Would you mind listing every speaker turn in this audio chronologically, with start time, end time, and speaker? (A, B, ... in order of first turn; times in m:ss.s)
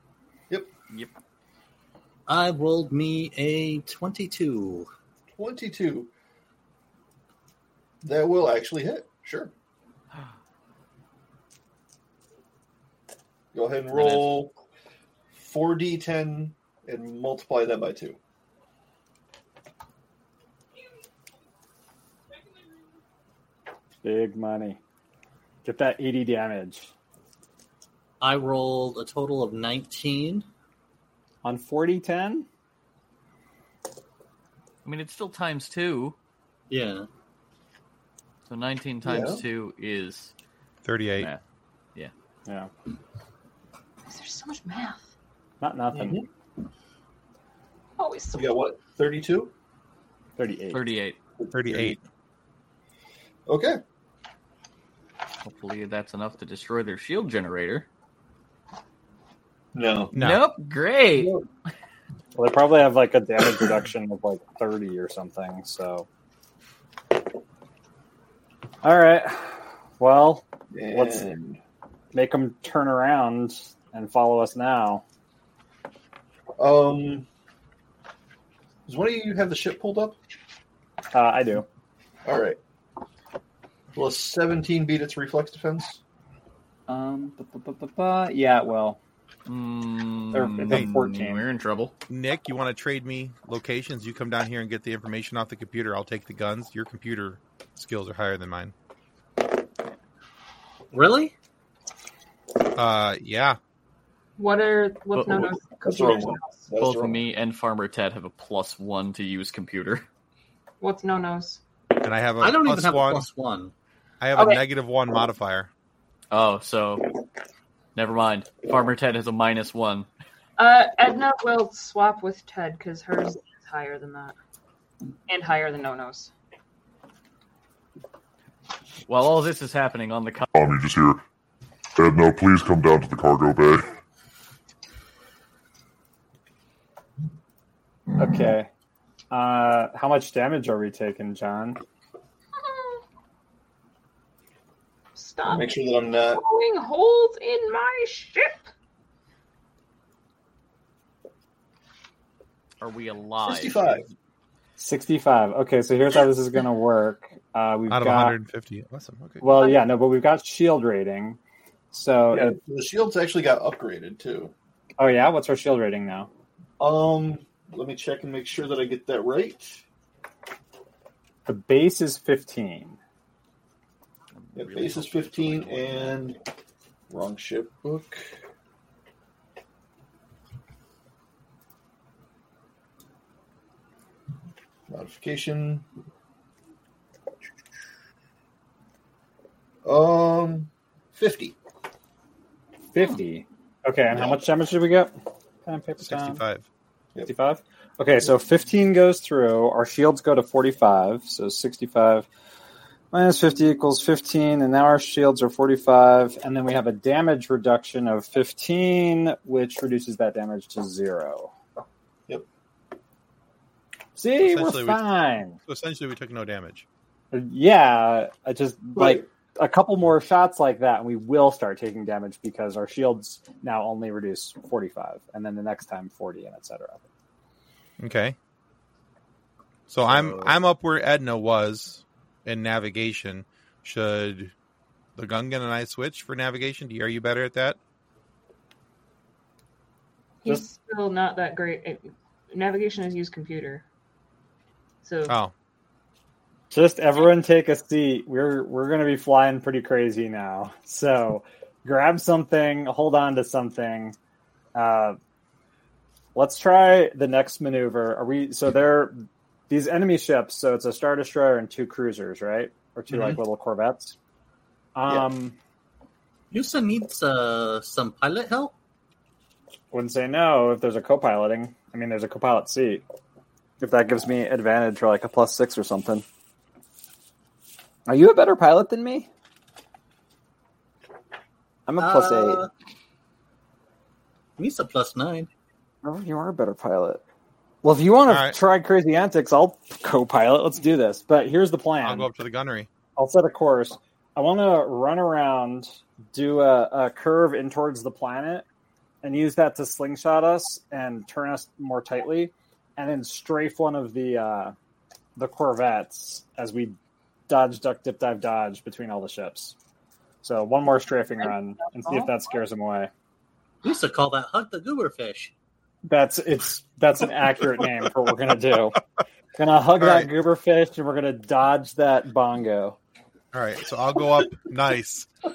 0:02.3-0:04.9 A
0:05.3-0:06.1 B
0:08.0-0:09.5 B
0:13.5-0:14.5 B
0:13.9-0:14.4 C
0:15.3-0:18.2 B
0:24.0-0:24.8 D
0:25.6-0:26.9 D
0:28.2-0:30.5 A
0:31.4-0:32.5 D
0:34.8-0:36.2 C
0:36.7-0:37.1 A
0:38.5-0:40.3 C
0:39.0-0:39.4 B
0:40.8-0:41.3 E
0:44.1-0:45.1 F
0:45.6-0:46.2 D
0:45.9-0:46.2 B
0:48.0-0:48.5 F
0:48.3-0:49.5 B
0:50.4-0:50.9 D
0:50.7-0:51.2 C
0:51.4-0:52.0 B
0:51.5-0:52.0 E
0:53.5-0:53.8 B
0:55.4-0:57.9 C
0:59.7-1:00.1 B
1:00.1-1:00.4 E
1:00.2-1:01.4 C
1:01.2-1:01.4 B
1:02.4-1:06.1 D
1:08.8-1:11.3 D
1:10.7-1:11.6 B
1:12.1-1:15.0 D
1:16.6-1:17.3 B
1:18.9-1:20.2 B
1:21.1-1:21.6 D
1:22.2-1:22.6 B
1:24.0-1:26.0 B
1:26.9-1:29.0 D
1:29.5-1:31.9 C
1:30.3-1:31.5 D
1:30.7-1:31.0 E
1:32.1-1:38.7 E
1:40.9-1:41.3 A
1:42.8-1:43.6 E
1:44.4-1:46.7 F
1:45.2-1:45.5 C
1:45.8-1:47.2 B
1:46.8-1:50.0 C
1:50.8-1:51.6 F
1:52.0-1:53.3 E
1:52.4-1:53.7 A
1:54.2-1:55.7 E
1:54.4-1:54.6 F
1:56.3-1:57.1 C
1:58.0-2:00.1 C
2:00.6-2:04.4 F
2:05.3-2:06.3 F
2:09.1-2:10.5 C
2:10.5-2:11.2 G
2:12.0-2:13.9 G
2:18.2-2:18.7 D
2:19.3-2:21.8 D
2:22.6-2:23.0 F
2:25.2-2:28.7 F
2:25.4-2:26.4 B
2:32.8-2:34.1 C
2:33.4-2:34.1 B
2:34.8-2:38.4 D
2:37.9-2:39.5 E
2:39.4-2:41.4 D
2:39.6-2:39.8 F
2:41.9-2:42.6 D
2:42.3-2:44.5 B
2:45.0-2:46.3 D
2:46.8-2:49.8 B
2:51.5-2:53.0 D
2:54.4-2:56.2 C
2:54.6-2:56.4 B
2:57.1-2:58.3 B
3:04.9-3:05.8 B
3:09.8-3:11.6 B
3:12.9-3:15.1 D
3:14.1-3:14.4 B
3:15.6-3:16.4 D
3:16.0-3:16.7 E
3:17.3-3:22.3 D
3:23.1-3:31.5 D
3:34.2-3:35.6 D
3:34.4-3:36.9 E
3:37.3-3:47.0 D
3:39.0-3:39.3 B
3:48.0-3:48.4 E
3:49.9-3:54.5 E
3:50.1-3:50.5 A
3:55.2-3:57.8 E
4:00.4-4:03.8 F
4:05.0-4:05.4 F
4:05.3-4:05.5 E
4:06.7-4:14.2 D
4:14.8-4:15.2 D
4:16.4-4:24.2 D
4:23.1-4:23.4 B
4:25.0-4:25.6 D
4:26.5-4:28.8 A
4:29.9-4:33.0 D
4:33.8-4:36.2 D
4:38.1-4:39.3 D
4:41.9-4:42.6 D
4:42.0-4:42.7 A
4:44.6-4:45.5 A
4:46.0-4:47.2 D
4:47.8-4:52.3 D
4:48.3-4:48.6 E
4:52.0-4:52.9 E
4:53.2-4:58.6 D
4:59.2-5:04.8 D
5:05.4-5:07.0 D
5:07.5-5:09.8 D
5:10.4-5:13.1 D
5:11.4-5:12.6 F
5:13.8-5:15.5 A
5:16.1-5:19.0 D
5:19.6-5:23.0 D
5:20.0-5:20.3 E
5:23.5-5:25.3 E